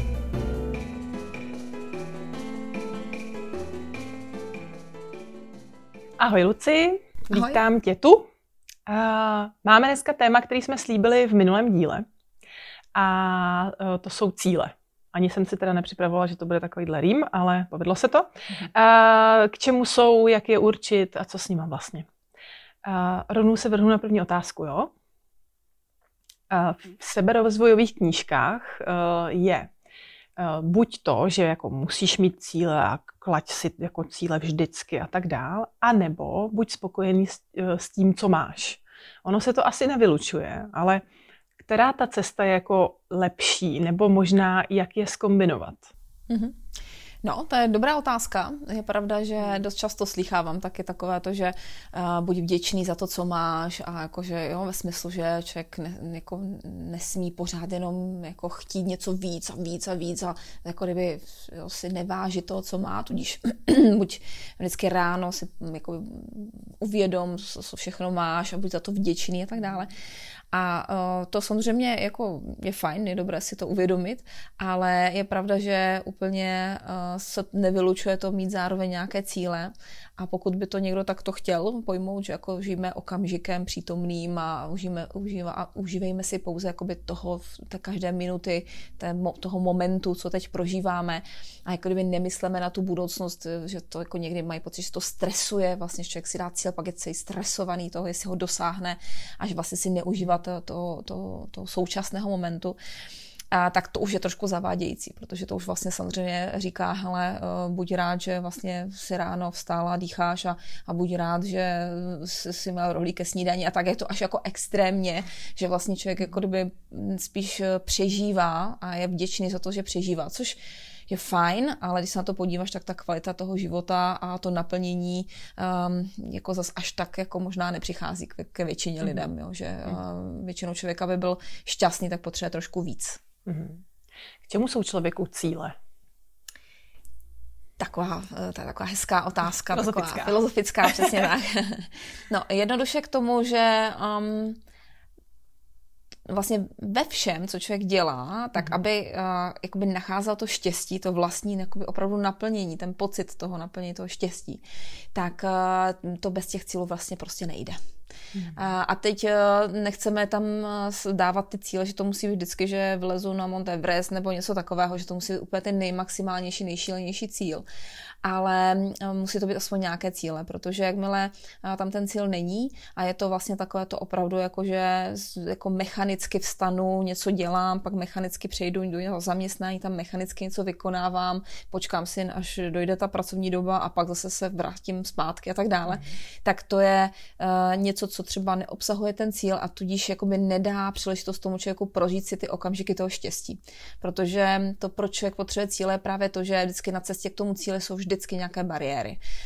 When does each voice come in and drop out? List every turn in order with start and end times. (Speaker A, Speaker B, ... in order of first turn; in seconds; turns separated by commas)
Speaker A: 6.2-8.3, Speaker B: 7.3-7.6, Speaker A: 8.9-12.1, Speaker A: 12.9-22.1, Speaker A: 22.8-24.9, Speaker A: 26.5-29.7, Speaker A: 30.4-41.0, Speaker A: 41.6-45.9, Speaker B: 46.3-46.6, Speaker B: 47.2-69.9, Speaker B: 70.5-102.8, Speaker B: 103.5-133.2, Speaker A: 133.5-133.8, Speaker A: 134.5-135.7, Speaker B: 137.8-144.6, Speaker A: 139.7-141.3, Speaker B: 146.3-154.6, Speaker B: 155.2-157.8, Speaker B: 158.5-167.7, Speaker B: 168.2-199.2